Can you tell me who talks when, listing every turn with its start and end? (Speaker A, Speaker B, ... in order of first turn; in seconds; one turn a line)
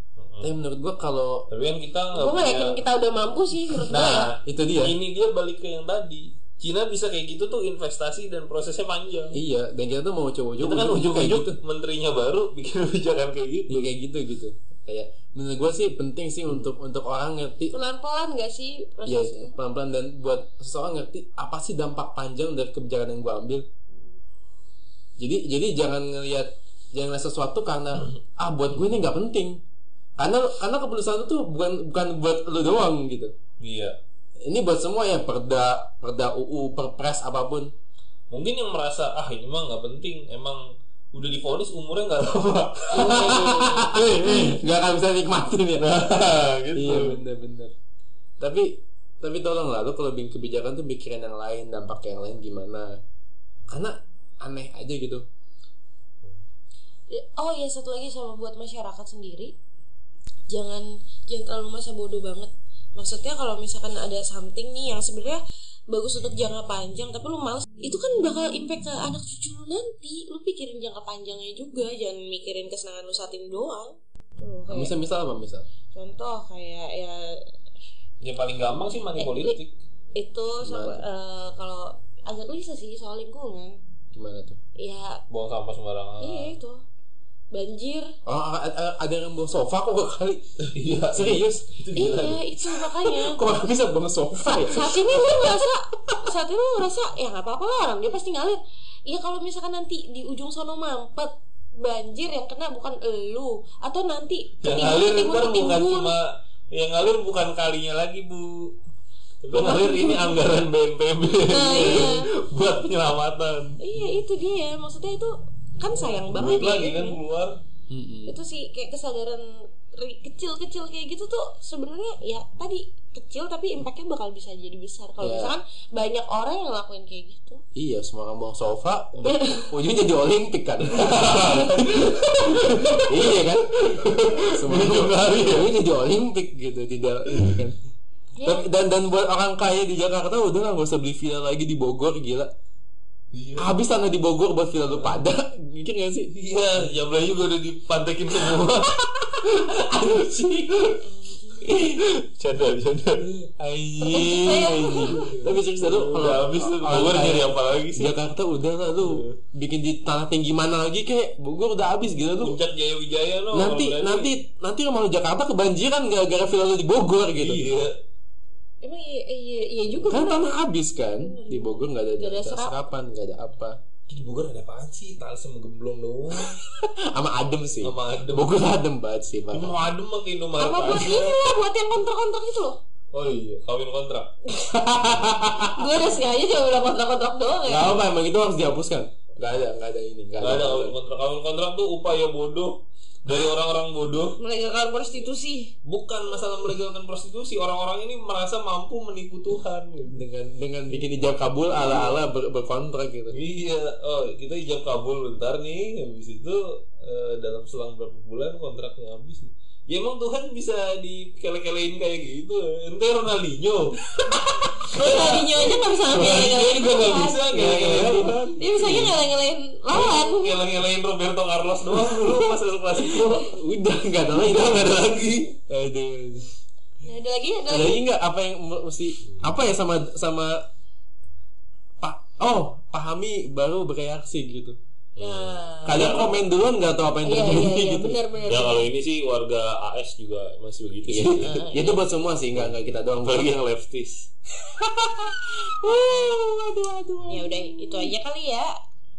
Speaker A: 0.2-0.5
Speaker B: 0.4-1.5
Speaker A: 1.5-2.8
Speaker C: 2.1-4.3
Speaker A: 3.9-9.4
Speaker B: 4.4-5.0
Speaker B: 9.3-11.6
Speaker A: 10.6-13.9
Speaker B: 13.7-17.7
Speaker C: 17.7-19.5
Speaker B: 19.1-23.7
Speaker C: 23.9-24.2
Speaker B: 25.2-29.6
Speaker B: 30.2-33.3
Speaker A: 33.6-34.0
Speaker B: 34.4-37.7
Speaker A: 38.3-44.6
Speaker C: 42.9-44.0
Speaker B: 42.9-46.2
Speaker A: 45.8-47.2
Speaker B: 46.7-47.7
Speaker B: 48.4-53.0
Speaker B: 53.7-55.3
Speaker C: 57.1-59.5
Speaker C: 60.5-75.0
Speaker B: 74.7-75.7
Speaker C: 75.9-77.4
Speaker A: 78.2-79.8
Speaker C: 79.2-79.6
Speaker C: 80.2-83.8
Speaker B: 80.6-81.0
Speaker B: 84.1-84.6
Speaker C: 84.8-85.2
Speaker A: 85.3-86.6
Speaker C: 86.2-86.8
Speaker C: 87.5-88.1
Speaker B: 88.3-90.4
Speaker A: 90.6-92.4
Speaker B: 91.1-91.7
Speaker C: 91.9-93.4
Speaker B: 92.8-96.2
Speaker C: 94.4-106.1
Speaker A: 104.6-108.8
Speaker A: 109.4-113.8
Speaker C: 109.5-110.4
Speaker C: 111.5-112.3
Speaker C: 113.8-117.2
Speaker A: 115.9-117.6
Speaker B: 117.9-118.4
Speaker C: 118.3-127.6
Speaker B: 125.2-125.5
Speaker B: 127.8-137.8
Speaker C: 129.3-129.6
Speaker A: 130.8-135.7
Speaker A: 137.3-137.6
Speaker C: 138.4-138.7
Speaker B: 138.4-142.5
Speaker A: 143.3-143.8
Speaker B: 143.6-146.3
Speaker A: 144.9-145.2
Speaker A: 146.3-149.0
Speaker B: 148.4-150.9
Speaker A: 150.8-151.0
Speaker C: 151.2-151.6
Speaker B: 151.6-152.0
Speaker A: 151.6-158.2
Speaker C: 154.0-155.3
Speaker B: 154.1-162.6
Speaker A: 158.9-159.4
Speaker A: 162.3-164.4
Speaker B: 163.5-167.7
Speaker A: 167.3-168.0
Speaker C: 168.8-172.8
Speaker B: 170.1-173.8
Speaker A: 174.1-176.6
Speaker B: 176.7-179.8
Speaker A: 177.8-178.8
Speaker A: 179.5-181.5
Speaker C: 180.6-182.8
Speaker A: 183.1-184.3
Speaker B: 184.7-185.9
Speaker C: 185.6-188.0
Speaker B: 187.7-190.9
Speaker A: 190.4-194.4
Speaker C: 194.4-195.7
Speaker A: 195.8-200.2
Speaker B: 200.1-203.4
Speaker A: 200.9-202.3
Speaker A: 203.3-219.2
Speaker C: 214.9-217.6
Speaker B: 217.5-218.4
Speaker C: 218.6-220.6
Speaker A: 219.9-223.6
Speaker B: 222.0-222.4
Speaker B: 223.0-225.0
Speaker A: 224.3-225.6
Speaker B: 225.7-226.5
Speaker C: 227.0-228.0
Speaker B: 227.7-230.7
Speaker B: 232.0-234.8
Speaker A: 235.2-236.3
Speaker C: 235.2-236.3
Speaker B: 235.8-238.2
Speaker C: 237.2-238.9
Speaker A: 238.5-241.6
Speaker B: 241.1-243.5
Speaker C: 241.4-242.1
Speaker A: 242.6-244.3
Speaker B: 244.6-248.1
Speaker C: 245.9-246.3
Speaker C: 247.3-248.8